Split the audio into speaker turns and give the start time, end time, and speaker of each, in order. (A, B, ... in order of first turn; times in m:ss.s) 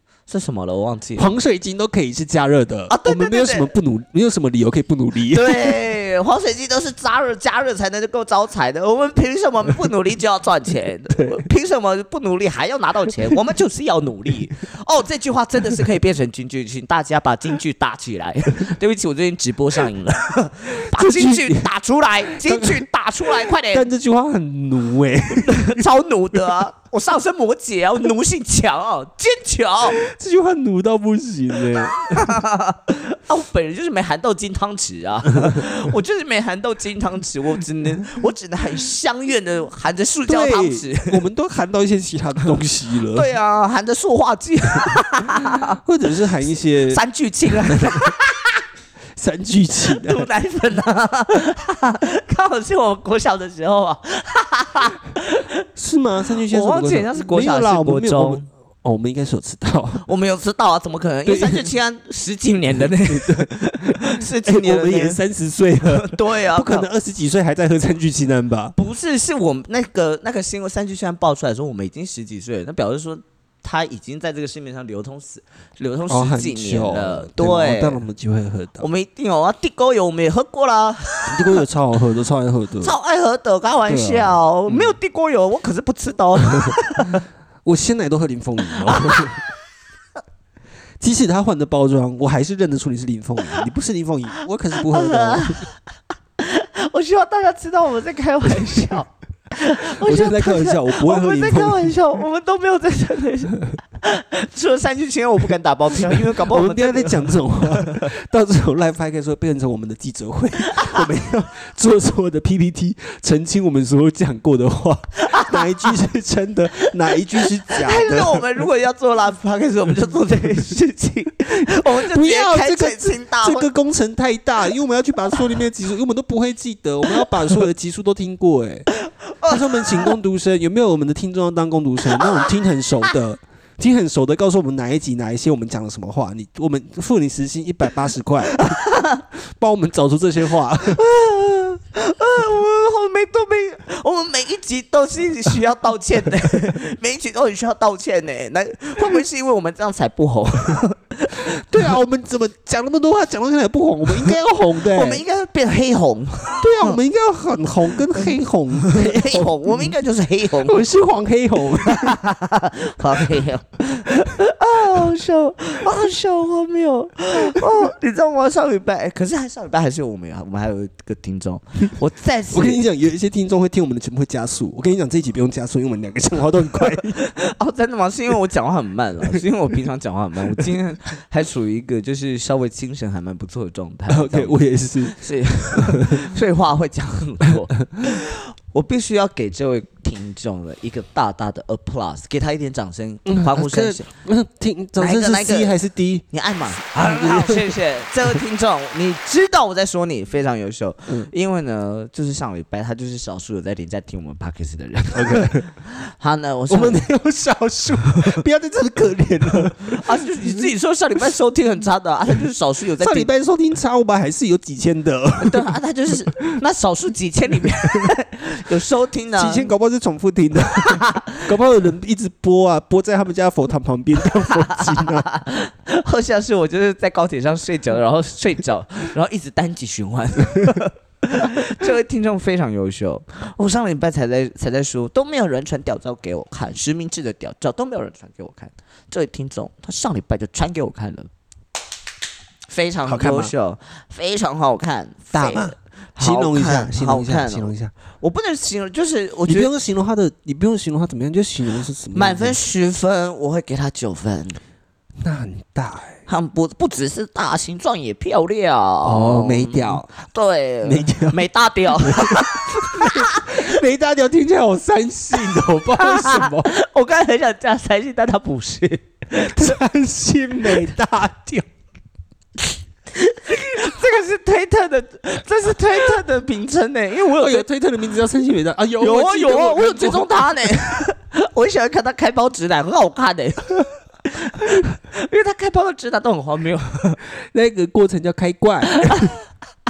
0:00.3-0:01.3 A
0:01.2-0:05.8 B
0:02.9-0:03.7 A
0:05.3-0:23.9 A
0:20.8-0:21.7 B
0:22.3-0:22.9 B
0:23.4-0:25.8 B
0:25.3-0:30.0 A
0:30.0-0:32.4 B
0:32.1-0:41.2 A
0:40.3-0:43.3 B
0:43.1-0:45.8 A
0:45.4-0:48.1 B
0:46.9-0:48.6 A
0:49.2-0:50.3 B
0:49.9-0:55.6 A
0:55.8-1:00.0 B
0:56.5-0:58.5 A
1:00.0-1:05.2 A
1:01.3-1:01.7 B
1:03.1-1:08.8 B
1:05.9-1:06.9 A
1:08.8-1:18.0 A
1:16.1-1:18.9 B
1:18.8-1:21.6 A
1:21.3-1:22.9 B
1:22.8-1:27.2 A
1:23.9-1:25.0 B
1:27.6-1:29.4 B
1:28.9-1:29.3 A
1:31.0-1:35.6 B
1:34.9-1:35.8 A
1:36.4-1:48.1 A
1:40.0-1:42.0 B
1:46.5-1:58.4 B
1:55.2-1:55.6 A
1:57.4-2:03.7 A
2:02.0-2:08.9 B
2:09.2-2:10.1 A
2:09.4-2:18.8 B
2:19.5-2:21.0 B
2:20.9-2:31.6 A
2:31.5-2:35.2 B
2:34.8-2:37.0 A
2:36.6-2:39.9 B
2:38.8-2:40.8 A
2:40.6-2:42.2 B
2:41.8-2:52.8 A
2:43.2-2:43.4 B
2:52.5-2:57.3 B
2:57.2-3:14.1 A
3:04.1-3:06.3 B
3:13.3-3:16.3 B
3:15.0-3:15.8 A
3:16.3-3:27.0 A
3:16.9-3:17.8 B
3:25.1-3:25.7 B
3:26.7-3:30.0 B
3:29.9-3:33.3 A
3:33.0-3:35.7 B
3:35.4-3:39.7 A
3:39.4-3:45.3 B
3:40.8-3:41.5 A
3:44.7-4:01.3 A
4:02.7-4:09.7 A
4:03.1-4:03.5 B
4:05.3-4:07.9 B
4:09.5-4:12.6 B
4:12.1-4:14.6 A
4:15.2-4:16.2 B
4:16.3-4:23.7 A
4:19.0-4:20.0 B
4:20.8-4:21.4 B
4:22.0-4:26.7 B
4:26.0-4:29.8 A
4:29.4-4:31.7 B
4:33.1-4:37.7 A
4:37.3-4:41.1 B
4:39.0-4:43.8 A
4:44.3-4:47.2 A
4:47.4-4:49.3 B
4:49.0-4:49.3 A